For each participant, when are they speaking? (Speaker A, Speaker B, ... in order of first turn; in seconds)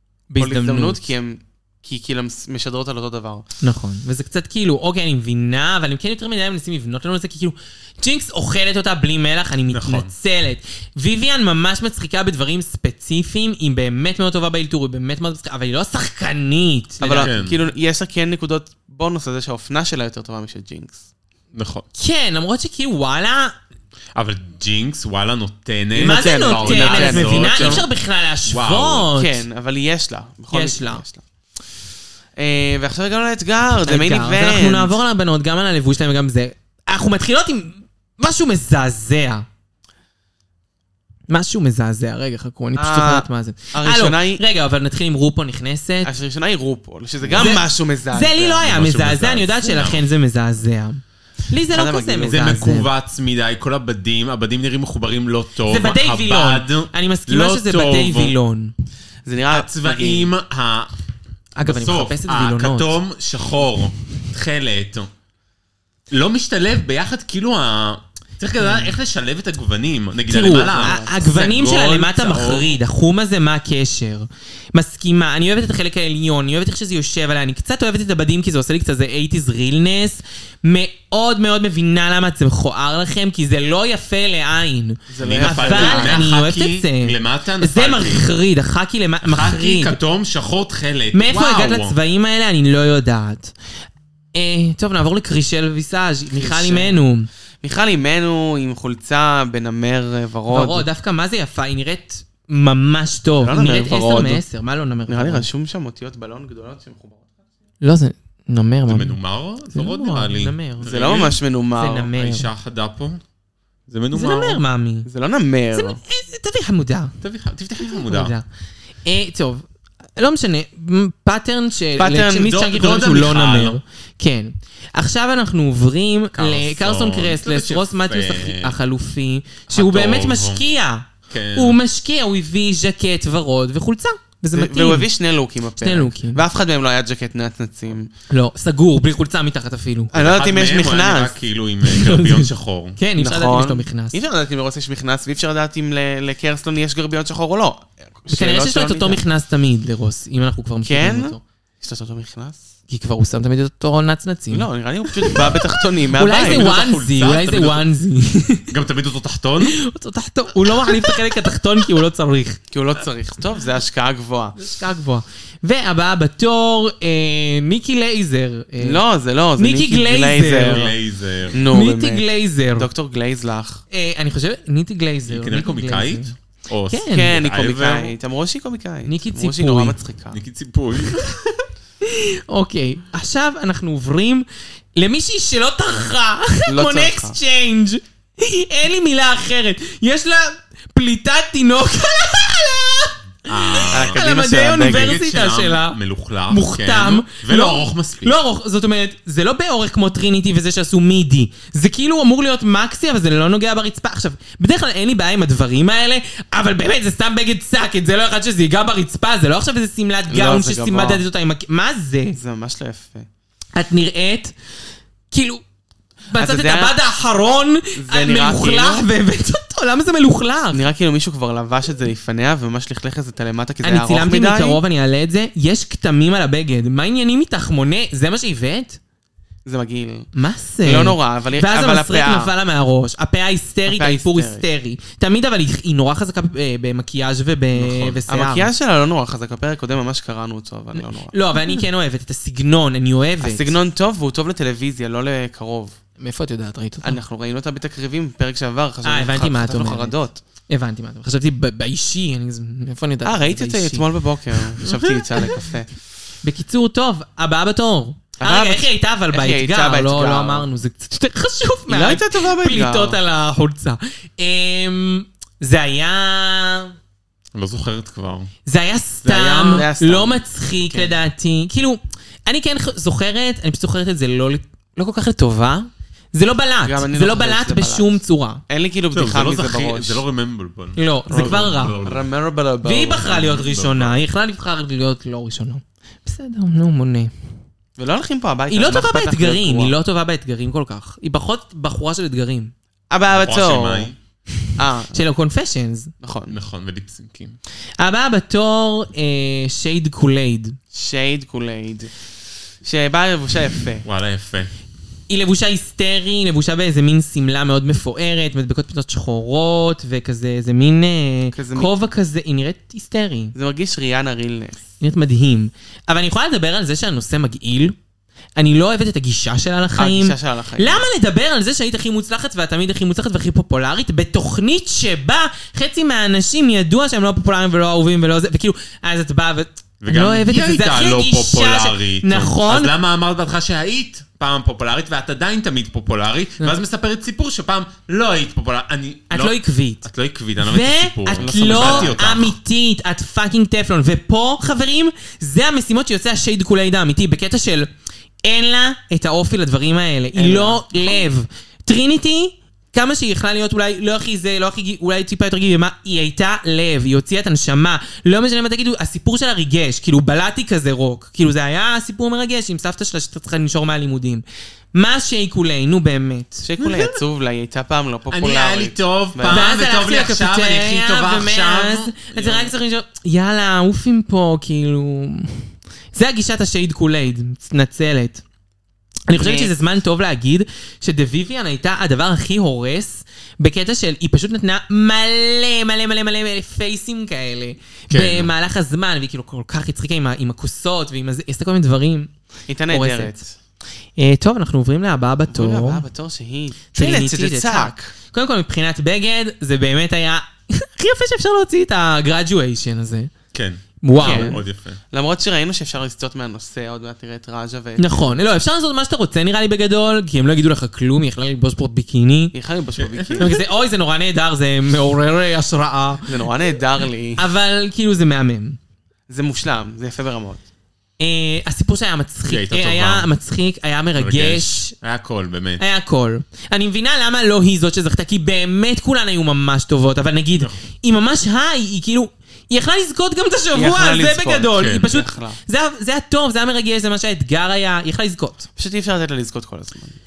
Speaker A: 0.3-1.0, 3.6-17.3, 21.9-23.5, 26.0-29.4, 30.5-31.0, 33.8-39.4, 41.3-46.1, 47.3-52.9, 55.7-58.7, 61.5-63.0, 68.6-68.9, 70.3-90.0, 91.1-93.5, 94.3-97.3, 100.5-105.5, 107.8-109.2, 109.7-110.9, 111.8-112.5, 114.1-115.1, 115.7-117.1, 117.9-118.4, 119.0-135.1, 135.8-136.4, 138.3-140.1, 141.8-144.2, 148.3-151.4, 152.9-155.6, 156.1-158.7, 159.6-162.6, 164.6-169.0, 169.6-170.8, 171.7-172.9, 173.9-176.3, 176.9-177.3, 179.1-179.9, 182.0-212.4, 213.8-214.5, 215.3-215.6, 216.3-220.8, 223.8-229.0, 230.3-238.7, 240.9-243.8, 246.2-247.2, 249.0-250.1, 250.7-254.0, 256.4-266.9, 268.6-278.6, 280.9-282.0, 282.8-287.3, 288.7-292.7, 295.1-296.1, 298.0-300.8, 305.3-313.5, 315.0-317.9, 318.6-332.9, 339.3-340.1, 340.6-347.9, 348.4-366.6, 369.5-378.4, 379.3-392.3, 392.9-393.4, 394.2-396.0, 396.9-403.3, 404.0-404.6, 408.0-412.5, 413.4-416.3, 417.4-418.8, 421.2-424.9, 425.8-438.6
Speaker B: 0.4-3.5, 17.0-21.0, 26.0-27.8, 29.1-31.2, 32.4-35.0, 42.8-44.4, 46.0-48.7, 51.7-52.6, 59.2-60.3, 70.5-71.2, 85.1-86.2, 96.3-97.0, 97.6-100.8, 103.4-104.4, 105.1-107.3, 110.8-112.1, 115.0-116.0, 122.0-122.5, 134.5-138.1, 140.1-141.3, 143.2-149.2, 150.8-152.6, 154.5-156.7, 162.7-164.6, 168.8-170.9, 171.5-173.8, 177.1-180.4, 186.7-187.4, 193.9-195.2, 210.3-211.2, 212.3-213.3, 216.3-217.0, 217.9-219.1, 220.7-224.8, 229.6-230.3, 230.8-232.5, 233.9-234.6, 238.3-241.3, 243.4-245.9, 247.0-250.4, 253.2-255.9, 258.4-260.7, 261.9-263.2, 269.4-271.1, 276.8-278.2, 278.7-280.2, 281.3-283.3, 288.0-289.9, 293.1-294.1, 294.8-295.2, 296.2-296.6, 300.9-302.1, 302.8-304.0, 311.5-311.9, 313.5-314.8, 319.9-321.0, 341.4-342.1, 350.3-351.2, 366.6-369.7, 379.3-379.7, 392.7-393.5, 395.5-398.1, 404.1-408.3, 412.5-413.5, 416.2-417.4, 419.3-420.6, 433.7-435.6, 438.8-440.2
Speaker C: 9.7-10.1, 17.2-17.6, 21.5-21.9, 24.1-27.9, 28.5-29.1, 47.2-47.6, 48.6-50.0, 52.3-58.4, 59.5-60.9, 61.6-65.1, 66.1-72.8, 85.2-88.3, 89.2-92.0, 108.9-111.4, 112.1-113.2, 113.9-114.6, 117.2-118.3, 122.3-123.8, 126.3-128.8, 129.7-130.6, 131.3-131.8, 140.1-143.0, 156.3-157.9, 158.7-159.8, 170.6-171.6, 175.2-178.1, 180.3-181.4, 193.5-194.2, 194.8-198.4, 237.7-238.2, 267.5-268.5, 269.2-269.8, 279.1-282.2, 283.2-284.2, 293.3-294.1, 296.5-297.6, 304.0-304.7, 330.0-342.5, 366.8-367.2, 368.3-372.7, 388.1-388.5, 403.5-405.0, 413.0-413.5, 422.5-423.3, 424.2-425.8, 434.7-435.1